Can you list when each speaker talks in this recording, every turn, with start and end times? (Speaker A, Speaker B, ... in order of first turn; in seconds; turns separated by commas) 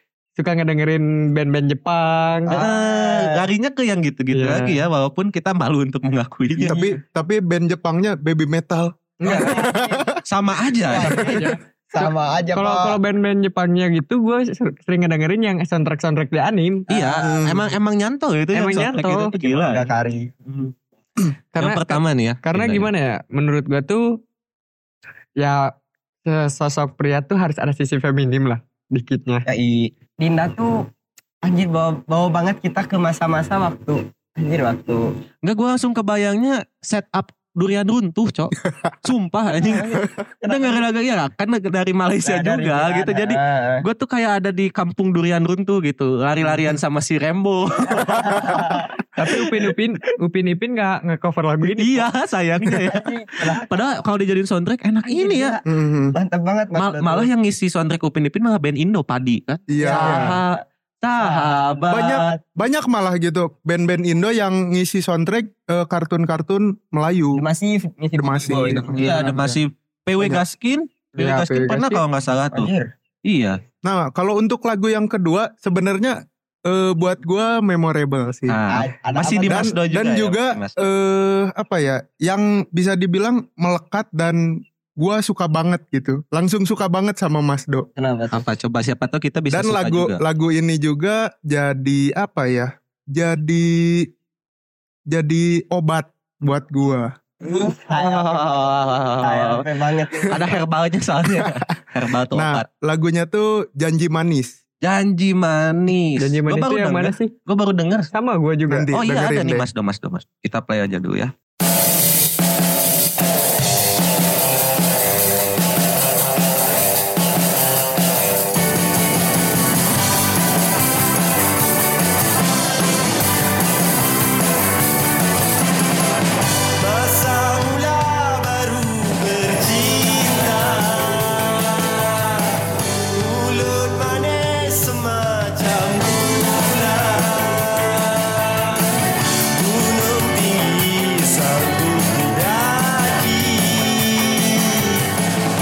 Speaker A: 0.4-2.5, Speaker B: 2.5-3.4, Speaker C: 2.5-6.9, Speaker A: 4.3-4.8, Speaker D: 6.6-10.2, Speaker A: 9.2-9.7, Speaker B: 9.2-10.1, Speaker C: 10.2-11.4, Speaker B: 10.9-13.0, Speaker A: 12.5-16.9, Speaker C: 16.9-19.9, Speaker D: 17.2-17.7, Speaker A: 18.5-19.3, Speaker B: 19.4-20.3, Speaker C: 20.5-20.7, Speaker A: 21.6-24.2, Speaker C: 21.6-22.9, Speaker A: 25.4-25.7, Speaker A: 26.2-29.5, Speaker B: 29.5-30.9, Speaker B: 31.4-35.1, Speaker C: 35.4-48.8, Speaker B: 39.5-40.8, Speaker B: 42.2-43.9, Speaker B: 47.9-48.9, Speaker A: 49.2-52.1, Speaker C: 51.6-55.5, Speaker B: 52.8-54.0, Speaker B: 55.0-57.3, Speaker D: 55.6-56.1, Speaker C: 56.8-62.2, Speaker D: 59.7-60.4, Speaker B: 59.8-60.4, Speaker B: 61.2-62.2, Speaker D: 61.9-67.4, Speaker B: 67.3-69.4, Speaker D: 68.2-69.0, Speaker C: 68.9-72.7, Speaker A: 71.2-72.0, Speaker B: 72.5-72.9, Speaker C: 73.2-73.6, Speaker D: 73.8-78.6, Speaker C: 78.5-80.8, Speaker B: 78.7-79.7, Speaker D: 79.5-87.9, Speaker B: 88.0-88.4, Speaker C: 88.3-90.2, Speaker D: 89.5-94.1, Speaker D: 95.1-97.1, Speaker B: 97.4-100.6, Speaker C: 97.9-99.7, Speaker C: 100.3-102.6, Speaker D: 101.4-101.6, Speaker D: 102.3-104.6, Speaker C: 104.8-108.1, Speaker A: 106.2-107.3, Speaker A: 108.1-108.9, Speaker D: 108.7-109.6, Speaker C: 108.9-111.3, Speaker E: 126.8-138.9, Speaker E: 139.5-145.0